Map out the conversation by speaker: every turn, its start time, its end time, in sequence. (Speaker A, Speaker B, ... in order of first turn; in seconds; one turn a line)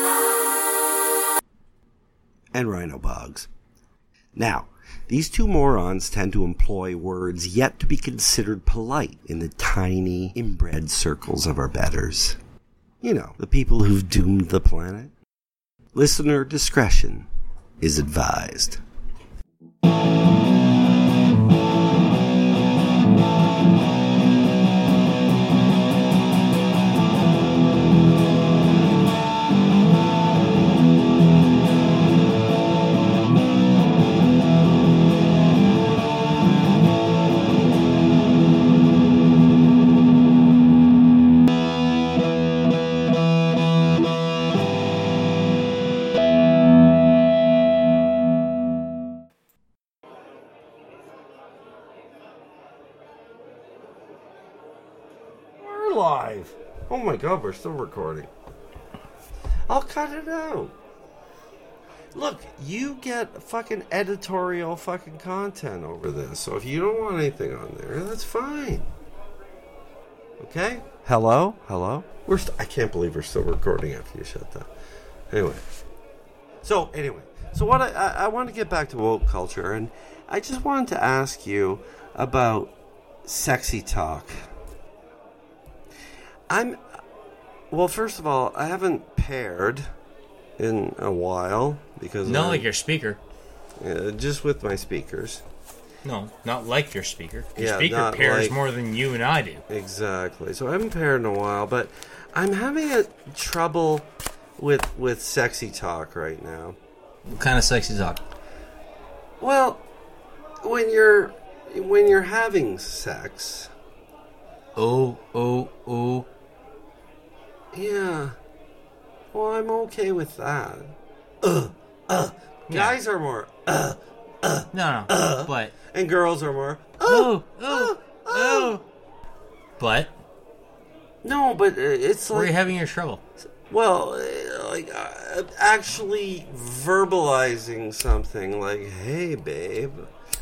Speaker A: 2.5-3.5
Speaker A: 4.3-12.4
Speaker A: 13.0-15.1
Speaker A: 15.9-17.3
Speaker A: 17.8-18.8
Speaker A: 55.6-58.3
Speaker A: 59.7-60.8
Speaker A: 62.1-68.9
Speaker A: 70.4-74.7
Speaker A: 75.3-75.6
Speaker A: 76.6-82.7
Speaker A: 83.2-84.3
Speaker A: 86.5-86.8
Speaker A: 87.7-89.9
Speaker A: 90.6-92.7
Speaker B: 92.2-93.2
Speaker A: 93.8-95.4
Speaker B: 96.0-99.6
Speaker A: 97.6-98.6
Speaker A: 99.7-104.1
Speaker A: 104.6-106.8
Speaker B: 107.2-108.2
Speaker A: 109.4-109.8
Speaker A: 110.6-113.7
Speaker B: 114.8-116.3
Speaker A: 117.7-118.4
Speaker A: 119.3-128.8
Speaker B: 122.7-123.0
Speaker B: 124.7-125.7
Speaker B: 127.0-128.8
Speaker B: 129.8-130.1
Speaker A: 131.2-132.5
Speaker B: 132.3-133.2
Speaker A: 133.7-140.1